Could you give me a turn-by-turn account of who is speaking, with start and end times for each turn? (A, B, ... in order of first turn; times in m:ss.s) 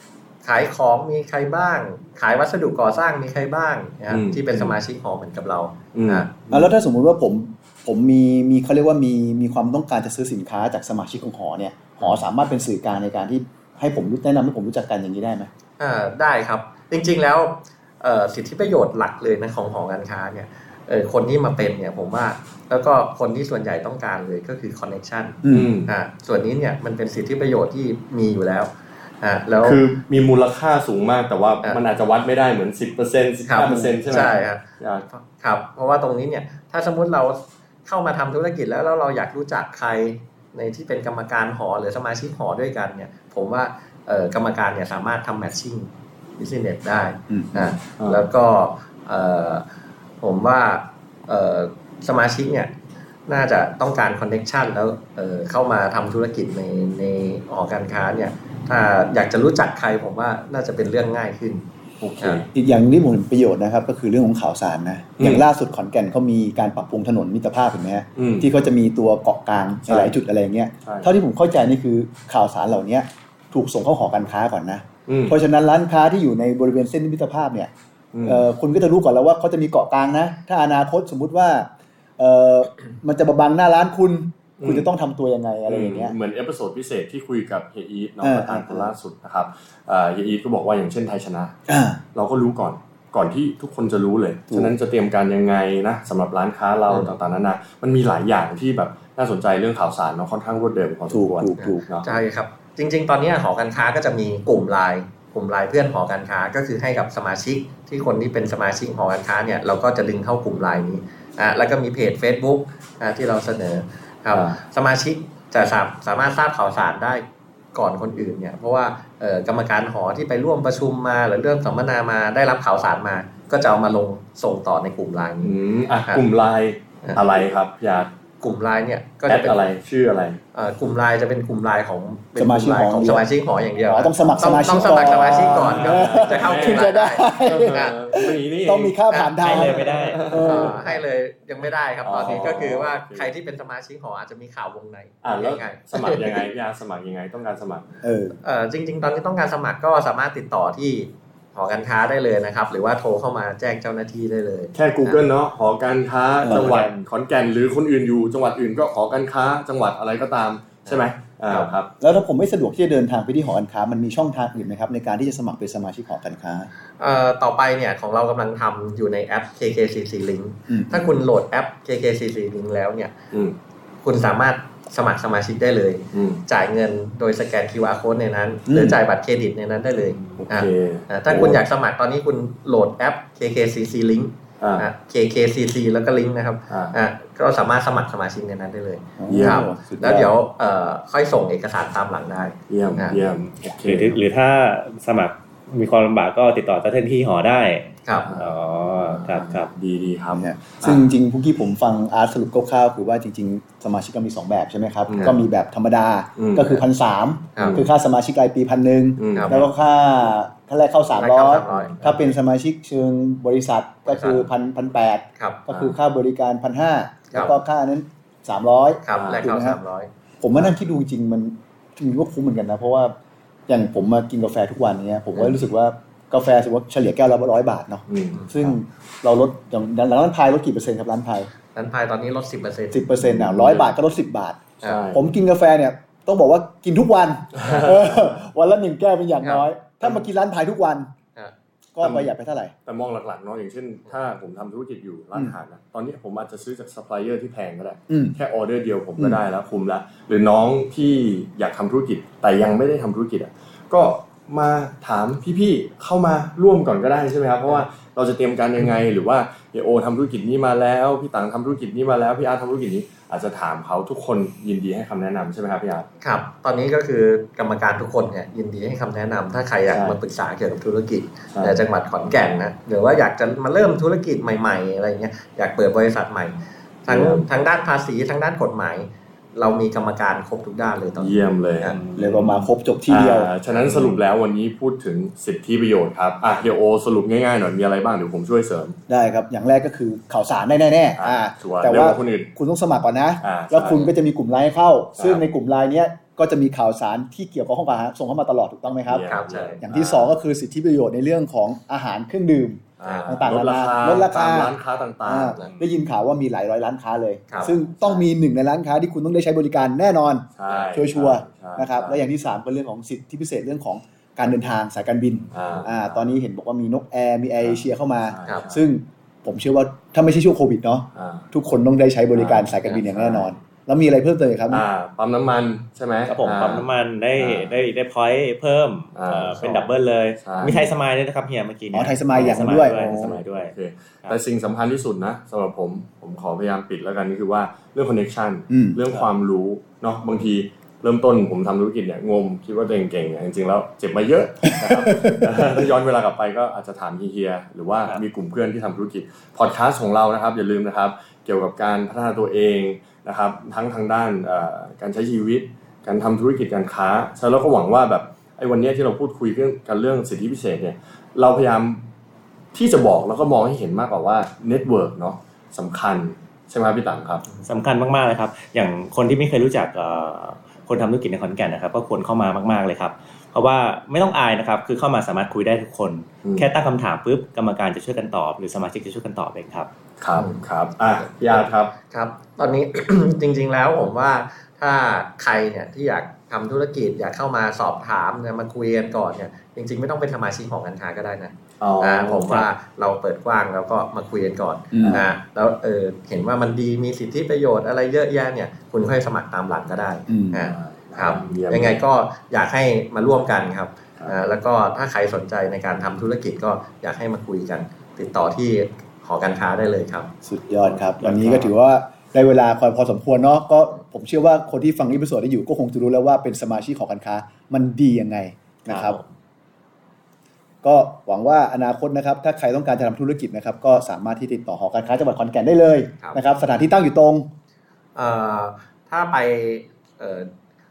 0:00.4-0:06.3 A
0:04.1-0:04.8 B
0:06.0-0:06.7 B
0:06.5-0:15.5 C
0:15.8-0:29.8 A
0:25.4-0:25.7 C
0:25.5-0:25.9 B
0:29.6-0:35.1 B
0:33.4-0:49.7 A
0:33.7-0:34.0 C
0:47.3-0:47.8 C
0:50.2-0:52.7 A
0:53.3-1:01.6 A
1:02.0-1:02.5 B
1:02.2-1:02.4 A
1:02.5-1:17.7 C
1:05.2-1:05.4 B
1:08.2-1:08.5 B
1:09.9-1:10.2 B
1:15.1-1:15.4 B
1:18.1-1:18.5 B
1:18.2-1:26.2 C
1:24.6-1:24.9 B
1:25.7-1:31.6 B
1:28.2-1:28.9 C
1:31.7-1:32.0 C
1:32.2-1:42.1 B
1:41.1-1:41.8 C
1:41.6-2:06.2 A
1:54.3-1:54.6 B
2:05.4-2:08.1 B
2:08.4-2:09.7 A
2:09.3-2:10.4 B
2:10.5-2:18.0 A
2:12.4-2:20.8 C
2:14.4-2:16.9 B
2:17.4-2:19.0 B
2:19.1-2:19.8 A
2:19.4-2:20.2 D
2:20.0-2:20.8 B
2:20.3-2:26.4 A
2:22.0-2:23.3 B
2:25.2-2:27.8 B
2:28.0-2:28.4 C
2:28.4-2:35.2 A
2:34.7-2:41.9 B
2:36.4-2:36.9 C
2:42.0-2:46.7 C
2:47.0-2:53.2 A
2:50.7-2:51.1 C
2:53.3-2:53.6 B
2:54.0-3:13.2 A
2:56.1-2:56.4 B
2:58.7-2:59.0 C
3:00.4-3:01.6 B
3:04.6-3:04.9 B
3:06.7-3:07.0 B
3:09.2-3:10.3 C
3:09.3-3:09.7 B
3:12.7-3:14.2 B
3:13.8-3:19.7 D
3:18.0-3:18.3 A
3:18.3-3:21.0 B
3:20.3-3:39.8 C
3:25.1-3:25.4 B
3:26.4-3:26.8 B
3:27.6-3:27.9 B
3:29.2-3:29.7 B
3:29.3-3:29.6 A
3:31.2-3:32.2 A
3:31.7-3:32.0 B
3:34.1-3:34.5 A
3:35.4-3:35.7 A
3:37.3-3:37.6 A
3:39.0-3:40.1 A
3:39.1-3:39.4 B
3:40.4-3:43.2 C
3:43.7-3:51.5 C
3:48.1-3:48.4 B
3:48.3-3:48.8 A
3:51.7-3:53.1 A
3:52.9-4:01.1 C
3:53.2-3:53.9 B
3:54.8-3:55.2 B
3:57.6-3:58.0 B
3:59.4-3:59.7 A
4:02.0-4:02.7 C
4:02.0-4:02.3 B
4:02.9-4:26.1 B
4:08.1-4:08.4 C
4:26.2-4:42.0 A
4:29.9-4:30.2 B
4:37.1-4:37.5 B
4:41.2-4:49.0 B
4:42.2-4:43.5 C
4:49.1-4:59.3 C
4:51.2-4:52.5 B
4:53.4-4:54.1 B
4:55.2-4:55.5 B
4:59.1-5:00.3 B
4:59.3-4:59.8 A
4:59.8-5:24.8 C
5:03.0-5:05.8 B
5:03.0-5:03.5 A
5:07.5-5:08.2 A
5:10.6-5:12.2 B
5:15.5-5:16.3 B
5:17.6-5:18.8 B
5:21.2-5:21.5 B
5:22.5-5:23.2 D
5:23.2-5:23.5 B
5:24.7-5:27.7 B
5:26.3-5:34.4 D
5:29.2-5:29.9 B
5:30.4-5:30.9 B
5:31.9-5:33.4 C
5:32.3-6:02.0 B
5:38.7-5:39.0 C
5:44.6-5:45.4 C
6:02.7-6:07.5 B
6:07.6-6:19.9 D
6:20.2-6:21.9 B
6:20.4-6:20.6 A
6:21.5-6:50.3 A
6:31.8-6:32.7 B
6:34.9-6:35.3 C
6:40.3-6:40.7 C
6:40.6-6:42.0 B
6:50.4-6:59.2 C
6:51.2-6:51.7 D
6:58.9-6:59.2 A
7:00.8-7:07.5 C
7:08.2-7:10.5 A